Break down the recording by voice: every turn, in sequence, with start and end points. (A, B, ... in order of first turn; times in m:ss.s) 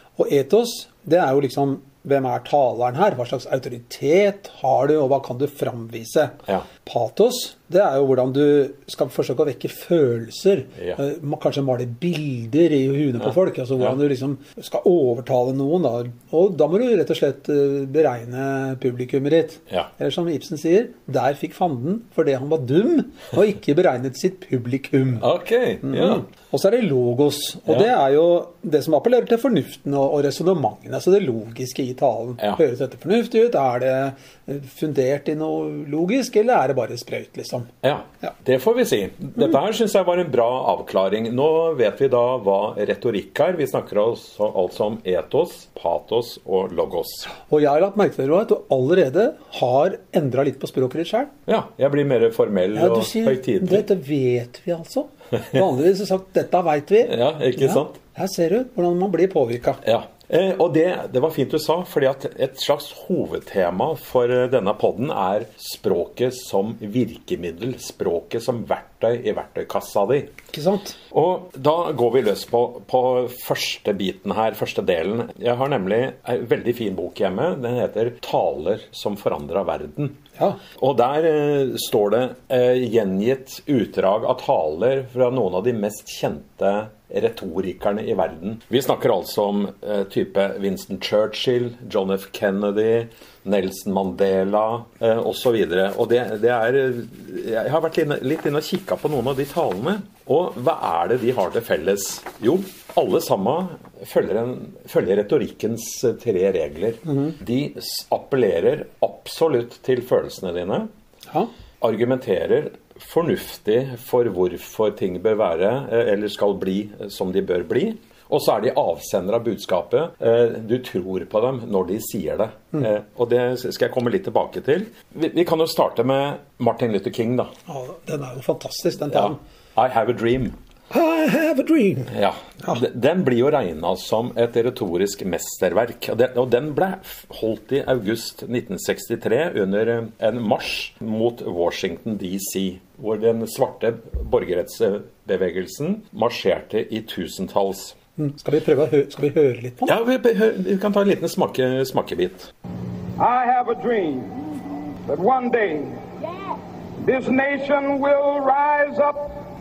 0:00.2-0:25.3 A
0:25.2-0:26.2 B
0:25.8-0:37.7 A
0:37.8-0:47.3 B
0:47.3-0:51.3 A
0:51.5-0:53.8 B
0:52.7-0:59.8 A
0:57.0-0:58.0 B
0:59.8-1:10.3 B
1:10.5-1:11.0 A
1:11.1-1:20.2 B
1:20.7-1:50.9 B
1:47.0-1:47.4 A
1:51.8-2:07.5 B
2:07.7-2:09.4 A
2:09.1-2:10.6 B
2:10.9-2:12.1 A
2:12.1-2:27.9 B
2:28.2-2:29.9 A
2:29.8-2:32.5 B
2:33.2-2:34.5 C
2:35.1-2:36.0 C
2:37.0-2:39.3 C